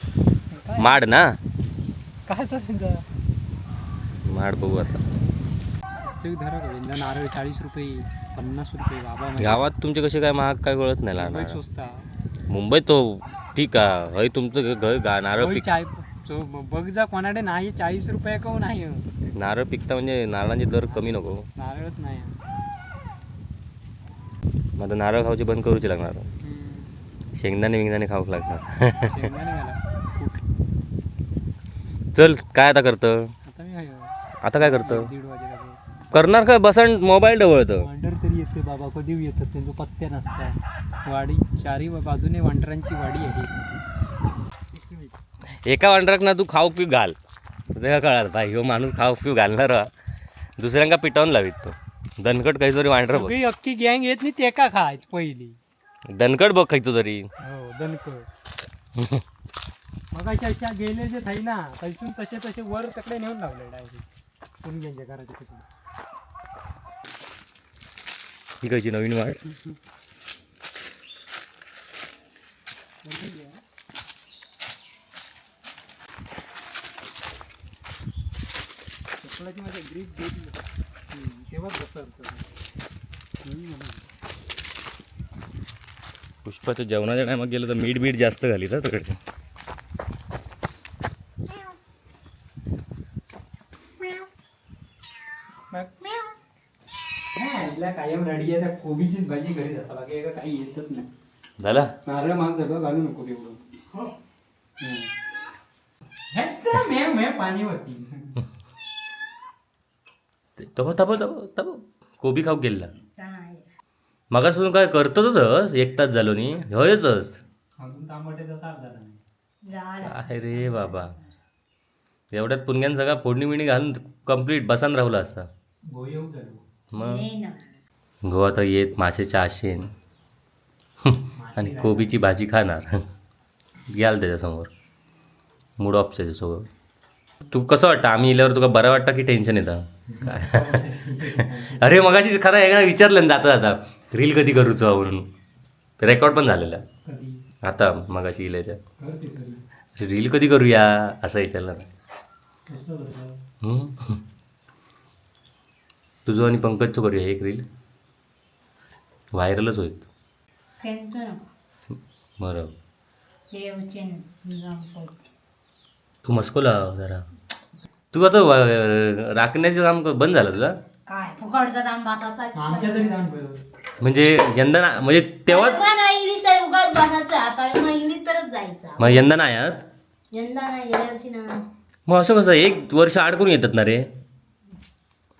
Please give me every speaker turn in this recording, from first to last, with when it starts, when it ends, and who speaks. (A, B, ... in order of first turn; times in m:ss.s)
0:00.5-0:01.0 A
0:00.8-0:01.4 B
0:02.3-0:03.0 A
0:04.3-0:05.0 B
0:06.0-0:09.7 A
0:09.4-0:11.6 B
0:11.2-0:12.1 A
0:12.5-0:15.7 B
0:15.4-0:19.1 A
0:19.4-0:21.5 B
0:20.9-0:22.4 A
0:24.8-0:26.3 B
0:26.4-0:27.0 A
0:27.4-0:29.2 B
0:29.1-0:30.5 A
0:32.1-0:33.3 B
0:33.5-0:35.8 A
0:34.4-0:35.1 B
0:36.1-0:37.9 B
0:37.8-0:43.6 A
0:44.7-0:45.2 A
0:45.7-0:47.2 B
0:47.7-0:49.9 B
0:50.6-0:53.4 B
0:53.1-0:55.6 A
0:56.2-0:57.3 B
0:57.4-0:58.3 A
0:59.0-0:59.2 B
1:00.1-1:04.1 A
1:04.6-1:05.7 A
1:08.6-1:09.4 B
1:13.0-1:13.6 A
1:19.2-1:22.5 A
1:23.4-1:24.1 A
1:26.4-1:29.2 B
1:35.7-1:36.3 A
1:37.4-1:41.1 A
1:41.6-1:41.9 B
1:42.1-1:43.6 A
1:44.8-1:45.1 A
1:46.3-1:48.4 A
1:50.6-1:52.9 B
1:53.2-1:53.7 C
1:54.3-1:57.4 B
1:57.8-1:59.2 A
1:59.6-2:01.4 C
2:00.0-2:01.1 B
2:02.3-2:05.5 B
2:05.9-2:06.6 A
2:06.9-2:07.2 B
2:07.0-2:07.7 C
2:08.3-2:09.9 B
2:11.0-2:13.0 B
2:11.4-2:12.2 A
2:13.9-2:14.7 B
2:15.8-2:16.7 B
2:17.5-2:20.8 B
2:20.1-2:22.0 A
2:21.3-2:25.3 B
2:26.0-2:26.8 B
2:27.0-2:27.4 A
2:27.6-2:28.8 B
2:29.0-2:29.6 A
2:30.0-2:31.9 B
2:32.7-2:33.4 A
2:33.6-2:34.2 B
2:36.3-2:37.6 B
2:39.4-2:40.1 B
2:40.8-2:41.4 C
2:42.4-2:42.7 B
2:43.5-2:45.2 C
2:46.2-2:47.2 B
2:48.1-2:50.8 B
2:51.1-2:53.2 C
2:52.6-2:53.6 A
2:54.0-2:55.8 B
2:55.5-2:59.2 C
2:59.0-2:59.8 B
3:00.3-3:01.6 C
3:02.1-3:04.1 B